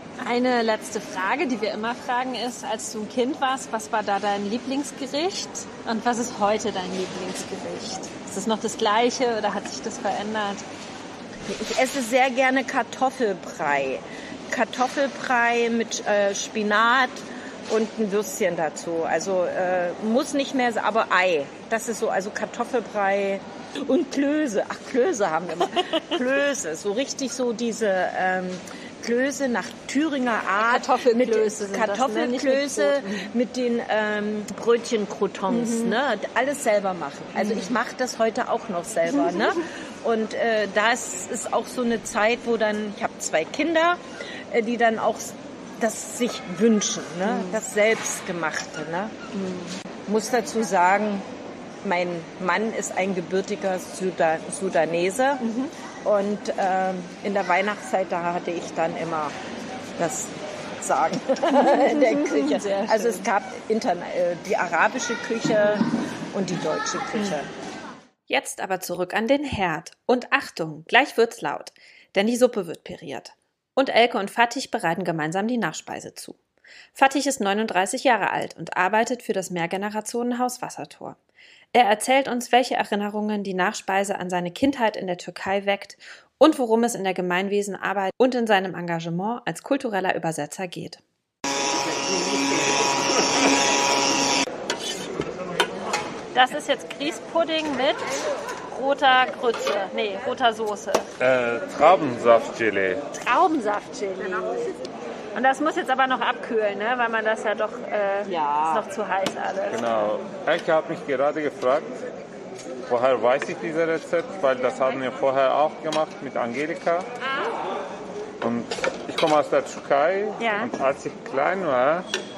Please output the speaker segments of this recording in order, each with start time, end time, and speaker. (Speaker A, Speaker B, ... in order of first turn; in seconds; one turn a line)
Speaker A: 0.2-10.6
Speaker B: 11.5-49.1
Speaker A: 30.6-33.3
Speaker A: 35.5-36.0
Speaker A: 37.4-37.7
Speaker A: 47.2-47.6
Speaker A: 49.3-49.8
Speaker B: 50.0-51.2
Speaker B: 51.8-55.4
Speaker A: 55.4-55.7
Speaker B: 56.0-59.3
Speaker B: 60.0-67.5
Speaker A: 61.5-63.3
Speaker C: 68.3-76.4
Speaker C: 76.9-81.2
Speaker C: 81.7-91.0
Speaker A: 96.3-98.1
Speaker A: 98.7-101.1
Speaker D: 101.2-103.0
Speaker A: 103.2-104.7
Speaker A: 105.3-109.8
Speaker B: 108.2-108.8
Speaker D: 109.7-112.0
Speaker D: 112.9-117.1
Speaker D: 118.4-122.1
Speaker A: 120.4-120.7